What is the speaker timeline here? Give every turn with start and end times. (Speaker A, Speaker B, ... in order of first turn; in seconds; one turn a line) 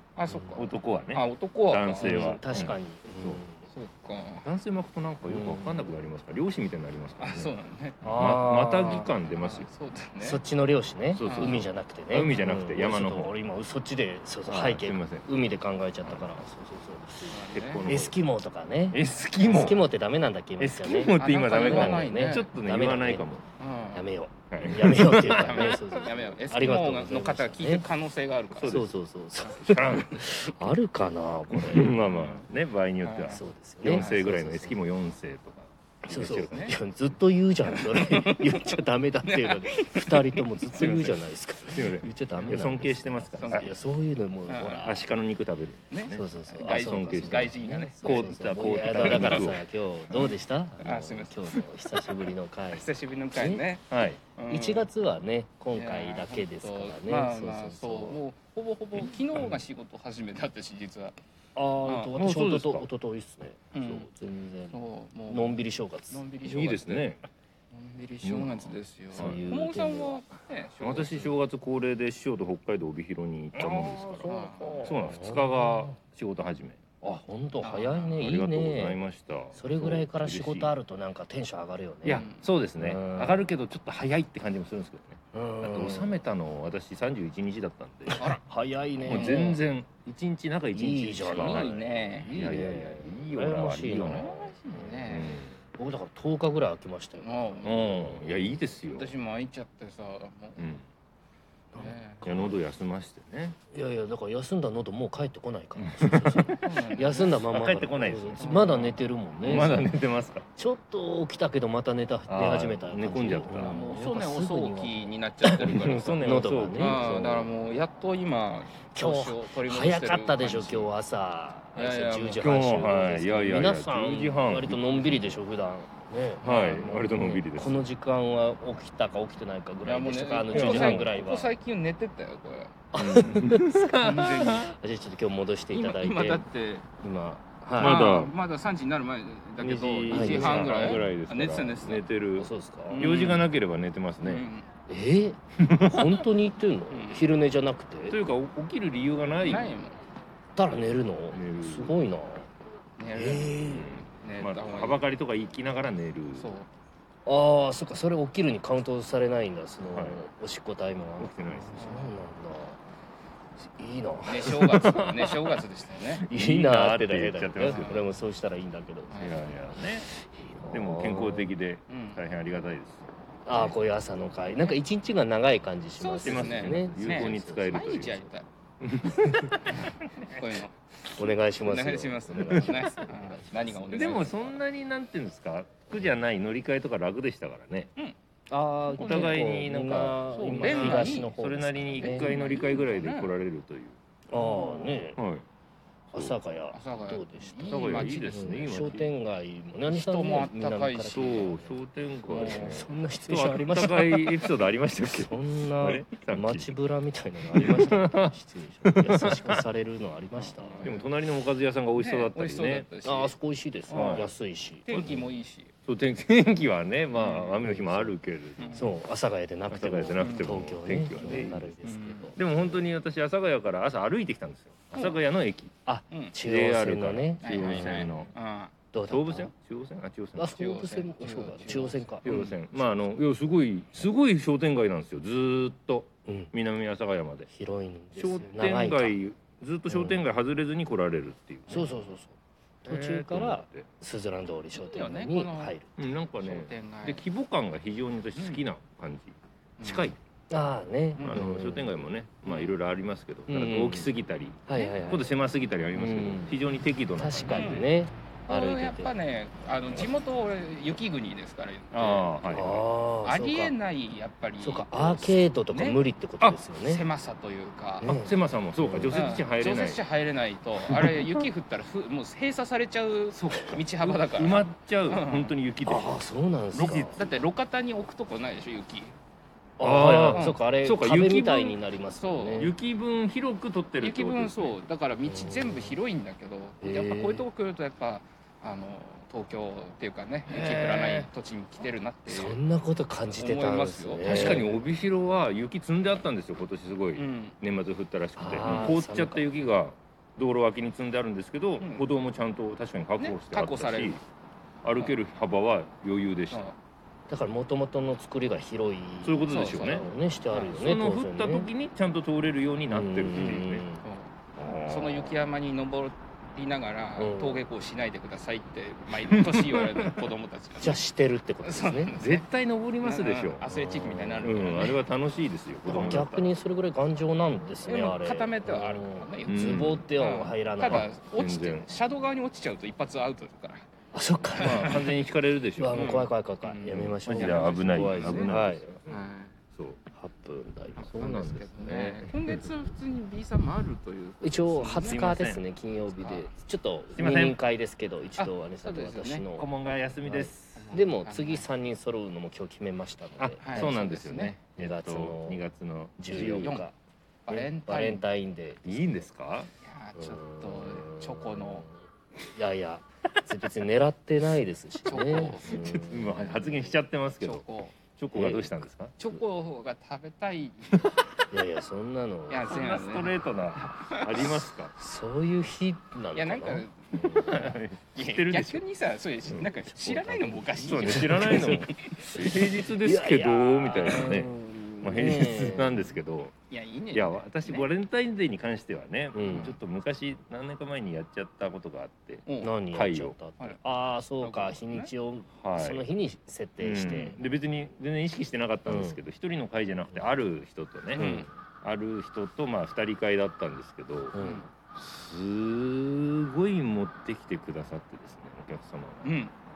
Speaker A: 0.2-2.4
Speaker B: 0.3-0.6
Speaker C: 0.5-3.4
Speaker B: 2.0-3.7
Speaker A: 3.7-4.5
Speaker C: 4.4-7.5
Speaker B: 5.3-6.1
Speaker A: 7.2-8.1
Speaker B: 8.0-9.1
Speaker C: 8.1-9.7
Speaker A: 9.3-10.4
Speaker B: 10.2-23.3
Speaker C: 11.1-13.3
Speaker A: 11.2-11.6
Speaker C: 14.5-15.3
Speaker C: 16.0-16.4
Speaker A: 17.3-17.9
Speaker C: 17.5-18.2
Speaker C: 18.9-19.8
Speaker C: 20.6-23.4
Speaker A: 21.1-22.5
Speaker A: 23.6-24.1
Speaker B: 23.9-27.9
Speaker C: 24.5-26.0
Speaker A: 25.2-28.9
Speaker C: 28.6-28.9
Speaker B: 28.6-31.9
Speaker C: 29.5-30.7
Speaker C: 31.5-36.7
Speaker A: 32.0-32.5
Speaker A: 33.0-34.2
Speaker B: 33.3-34.8
Speaker B: 36.1-45.0
Speaker A: 36.3-36.8
Speaker A: 37.7-40.4
Speaker C: 40.8-43.7
Speaker A: 43.4-43.7
Speaker A: 44.5-44.9
Speaker C: 44.8-49.6
Speaker A: 45.9-49.6
Speaker B: 46.1-53.6
Speaker A: 50.1-51.7
Speaker A: 52.7-54.9
Speaker C: 53.9-54.2
Speaker B: 54.5-58.2
Speaker A: 55.7-61.2
Speaker B: 59.4-59.6
Speaker B: 61.6-64.8
Speaker A: 61.9-62.1
Speaker C: 62.1-62.9
Speaker A: 63.7-64.1
Speaker A: 64.7-67.1
Speaker B: 65.3-66.2
Speaker C: 66.4-67.2
Speaker A: 67.7-71.4
Speaker C: 68.2-69.4
Speaker B: 69.1-70.2
Speaker C: 70.8-74.3
Speaker B: 73.6-76.0
Speaker A: 74.2-74.9
Speaker C: 74.9-76.8
Speaker B: 77.0-79.0
Speaker A: 77.6-78.3
Speaker C: 78.2-80.7
Speaker B: 79.5-83.5
Speaker C: 82.0-88.4
Speaker A: 82.1-82.5
Speaker B: 85.3-86.2
Speaker B: 88.2-89.6
Speaker A: 89.0-89.6
Speaker C: 89.1-95.6
Speaker B: 90.7-98.2
Speaker A: 91.3-92.6
Speaker A: 93.9-95.4
Speaker A: 97.2-98.3
Speaker C: 97.6-99.1
Speaker A: 98.8-100.8
Speaker C: 100.6-100.8
Speaker B: 101.7-102.6
Speaker A: 101.8-102.3
Speaker C: 102.2-103.6
Speaker B: 103.7-110.0
Speaker C: 105.8-108.5
Speaker A: 106.6-107.4
Speaker A: 108.4-109.7
Speaker C: 109.4-110.5
Speaker B: 110.6-117.5
Speaker C: 112.3-113.8
Speaker A: 113.5-120.9
Speaker C: 115.6-117.1
Speaker B: 118.9-131.5
Speaker A: 121.8-122.5
Speaker C: 122.4-125.4
Speaker C: 126.4-127.9
Speaker A: 126.5-126.8
Speaker A: 129.8-132.7
Speaker C: 130.5-131.2
Speaker B: 132.9-133.8
Speaker C: 132.9-134.7
Speaker A: 133.9-134.7
Speaker B: 134.6-136.4
Speaker A: 135.7-136.9
Speaker B: 137.0-138.1
Speaker A: 137.8-142.1
Speaker C: 137.8-138.3
Speaker C: 139.6-144.5
Speaker B: 140.0-141.1
Speaker B: 142.4-143.1
Speaker A: 142.9-143.5
Speaker A: 144.2-144.7
Speaker B: 144.9-148.2
Speaker C: 145.6-146.2
Speaker A: 146.9-147.3
Speaker C: 148.1-149.8
Speaker A: 149.4-150.0
Speaker B: 150.6-152.5
Speaker C: 151.3-152.0
Speaker A: 153.0-155.0
Speaker B: 153.1-154.0
Speaker C: 153.7-156.5
Speaker A: 156.3-156.7
Speaker B: 157.3-162.8
Speaker C: 159.9-160.2
Speaker C: 161.2-161.8
Speaker A: 161.8-162.1
Speaker B: 163.6-164.6
Speaker A: 164.2-166.3
Speaker C: 164.6-165.6
Speaker C: 166.1-167.9
Speaker B: 166.3-169.3
Speaker A: 167.6-168.1
Speaker A: 169.1-169.5
Speaker C: 169.2-170.1
Speaker B: 170.1-171.5
Speaker C: 170.7-173.7
Speaker A: 171.9-172.2
Speaker B: 173.5-178.3
Speaker A: 176.0-178.5
Speaker C: 176.2-178.2
Speaker C: 178.8-179.9
Speaker A: 179.6-184.6
Speaker B: 181.2-184.3
Speaker C: 182.5-182.8
Speaker C: 183.9-187.9
Speaker B: 188.5-192.3
Speaker A: 188.9-189.3
Speaker C: 189.0-194.0
Speaker A: 190.3-191.3
Speaker A: 192.0-193.3
Speaker B: 194.3-195.2
Speaker A: 194.3-195.0
Speaker C: 195.2-195.4
Speaker C: 196.1-196.4
Speaker B: 196.1-201.8
Speaker A: 196.7-199.0
Speaker C: 197.7-199.1
Speaker A: 199.9-201.5
Speaker C: 201.1-206.8
Speaker A: 202.2-202.9
Speaker B: 202.4-210.9
Speaker C: 207.5-209.6
Speaker A: 210.4-211.1
Speaker C: 210.8-212.9
Speaker A: 212.0-213.3
Speaker B: 213.1-215.3
Speaker A: 213.9-214.3
Speaker C: 213.9-214.3
Speaker A: 214.9-215.7
Speaker C: 214.9-215.2
Speaker C: 215.9-219.0
Speaker A: 217.1-217.7
Speaker B: 217.6-218.1
Speaker A: 218.6-218.9
Speaker B: 218.7-222.5
Speaker C: 219.7-221.8
Speaker A: 220.1-220.5
Speaker A: 221.8-222.4
Speaker C: 222.4-225.7
Speaker A: 224.9-225.2
Speaker B: 225.9-228.2
Speaker C: 226.4-228.3
Speaker A: 227.4-228.7
Speaker B: 228.9-229.5
Speaker C: 229.1-230.5
Speaker B: 230.4-233.2
Speaker A: 230.5-232.6
Speaker C: 232.2-237.5
Speaker B: 236.3-236.5
Speaker B: 237.5-239.2
Speaker C: 238.2-241.9
Speaker B: 239.9-240.2
Speaker B: 241.7-245.9
Speaker C: 242.8-243.9
Speaker A: 244.7-247.2
Speaker C: 246.0-250.2
Speaker A: 248.3-248.7
Speaker A: 249.8-250.1
Speaker B: 250.5-251.9
Speaker A: 251.2-251.5
Speaker C: 251.2-257.9
Speaker A: 252.4-252.7
Speaker B: 253.5-254.1
Speaker B: 254.7-255.3
Speaker B: 255.9-256.6
Speaker B: 257.2-259.1
Speaker A: 257.5-257.9
Speaker A: 258.5-262.4
Speaker C: 261.9-262.9
Speaker B: 262.5-263.7
Speaker A: 263.2-268.2
Speaker B: 264.6-267.1
Speaker B: 268.0-269.2
Speaker C: 268.0-270.0
Speaker A: 269.1-275.5
Speaker C: 270.9-271.5
Speaker C: 273.3-276.2
Speaker B: 275.9-277.2
Speaker C: 276.7-277.3
Speaker A: 277.2-279.1
Speaker B: 279.8-282.8
Speaker C: 279.8-281.8
Speaker A: 280.3-280.6
Speaker A: 282.1-282.7
Speaker C: 282.6-284.8
Speaker A: 284.0-292.6
Speaker B: 285.2-286.0
Speaker B: 286.8-287.4
Speaker C: 290.5-291.3
Speaker B: 292.3-294.7
Speaker A: 293.4-294.8
Speaker C: 294.2-304.2
Speaker A: 297.2-297.6
Speaker B: 298.4-299.5
Speaker A: 298.6-298.9
Speaker A: 301.8-302.1
Speaker A: 303.2-304.2
Speaker C: 304.8-306.7
Speaker A: 306.5-306.8
Speaker B: 307.3-311.7
Speaker C: 309.2-310.1
Speaker A: 309.5-310.7
Speaker C: 310.7-313.8
Speaker B: 312.9-314.0
Speaker A: 313.3-314.3
Speaker C: 314.6-315.4
Speaker A: 314.9-321.1
Speaker B: 317.2-317.7
Speaker C: 319.2-320.2
Speaker B: 320.8-322.1
Speaker A: 321.6-322.5
Speaker C: 322.2-323.6
Speaker A: 323.0-325.0
Speaker B: 323.7-324.5
Speaker C: 324.4-326.5
Speaker B: 325.8-331.1
Speaker A: 327.9-333.9
Speaker C: 329.5-330.1
Speaker C: 330.9-331.9
Speaker B: 334.1-334.9
Speaker A: 334.6-335.1
Speaker C: 334.6-336.2
Speaker B: 335.8-338.9
Speaker A: 335.9-339.6
Speaker C: 336.9-339.2
Speaker C: 339.8-340.0
Speaker B: 340.1-341.5
Speaker C: 341.0-342.7
Speaker A: 341.1-345.4
Speaker B: 344.4-349.7
Speaker C: 344.9-345.6
Speaker A: 346.2-346.5
Speaker C: 347.1-347.6
Speaker A: 348.4-349.5
Speaker C: 349.5-351.1
Speaker B: 350.2-354.0
Speaker A: 350.8-351.7
Speaker C: 353.4-356.8
Speaker A: 353.6-354.6
Speaker B: 354.8-355.6
Speaker B: 356.2-356.9
Speaker A: 356.6-356.9
Speaker A: 357.5-358.2
Speaker B: 357.5-359.3
Speaker C: 358.9-359.7
Speaker A: 359.8-361.9
Speaker B: 360.2-361.9
Speaker B: 362.5-367.0
Speaker A: 365.1-365.8
Speaker C: 365.6-367.6
Speaker A: 367.4-368.0
Speaker C: 368.2-369.1
Speaker B: 368.3-368.7
Speaker A: 369.2-371.1
Speaker B: 371.5-372.9
Speaker A: 372.5-374.5
Speaker C: 372.7-374.9
Speaker B: 375.0-377.8
Speaker A: 376.3-377.2
Speaker C: 377.2-378.8
Speaker A: 378.1-382.3
Speaker B: 379.5-386.2
Speaker C: 380.8-386.6
Speaker A: 386.7-387.9
Speaker C: 387.1-393.4
Speaker B: 389.3-389.8
Speaker A: 389.5-389.8
Speaker A: 392.5-392.8
Speaker B: 392.6-397.4
Speaker A: 394.4-395.1
Speaker C: 395.6-396.1
Speaker C: 396.8-404.4
Speaker B: 398.9-399.2
Speaker A: 401.1-401.5
Speaker B: 401.2-401.5
Speaker B: 404.3-404.7
Speaker A: 404.4-404.7
Speaker C: 405.0-409.4
Speaker A: 409.2-409.5